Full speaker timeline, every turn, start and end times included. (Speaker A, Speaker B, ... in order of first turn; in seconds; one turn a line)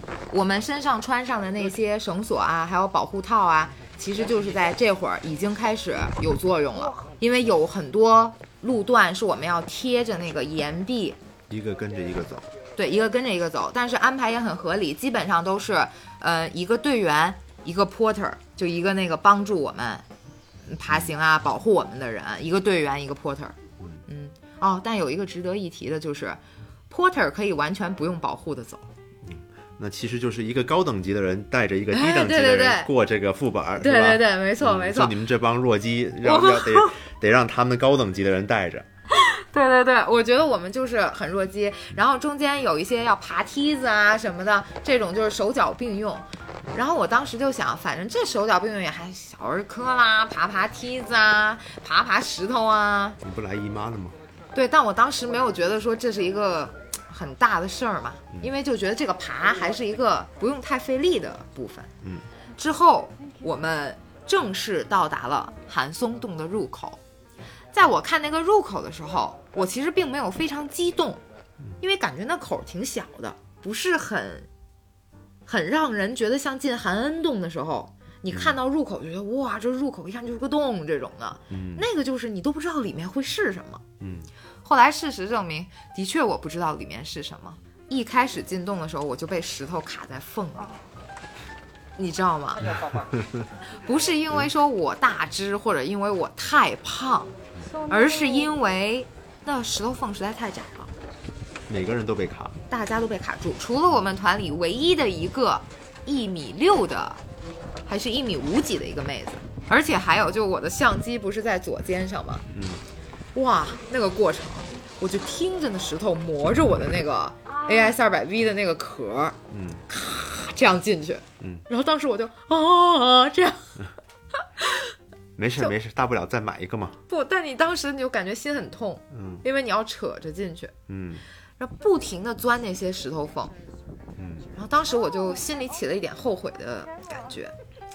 Speaker A: 0.3-11.2
Speaker B: 11.5-12.5
Speaker A: 12.8-20.1
Speaker A: 20.7-28.9
Speaker B: 29.2-38.9
Speaker A: 31.9-32.9
Speaker A: 33.8-35.2
Speaker A: 36.2-37.0
Speaker A: 39.1-53.2
Speaker B: 53.2-54.1
Speaker A: 54.5-61.9
Speaker A: 62.6-67.0
Speaker A: 67.7-71.2
Speaker A: 71.8-74.5
Speaker A: 75.5-83.8
Speaker B: 81.5-81.9
Speaker B: 84.0-84.3
Speaker A: 84.6-90.8
Speaker A: 92.0-92.9
Speaker B: 93.1-93.5
Speaker A: 93.7-100.9
Speaker B: 101.7-102.6
Speaker A: 102.7-107.2
Speaker A: 107.9-112.5
Speaker B: 112.5-112.8
Speaker A: 113.3-119.4
Speaker B: 119.5-119.8
Speaker A: 119.9-123.8
Speaker A: 124.6-124.9
Speaker B: 125.4-127.0
Speaker A: 127.1-130.7
Speaker B: 129.1-129.4
Speaker B: 130.9-131.2
Speaker A: 131.6-133.5
Speaker B: 134.2-134.5
Speaker A: 134.5-137.5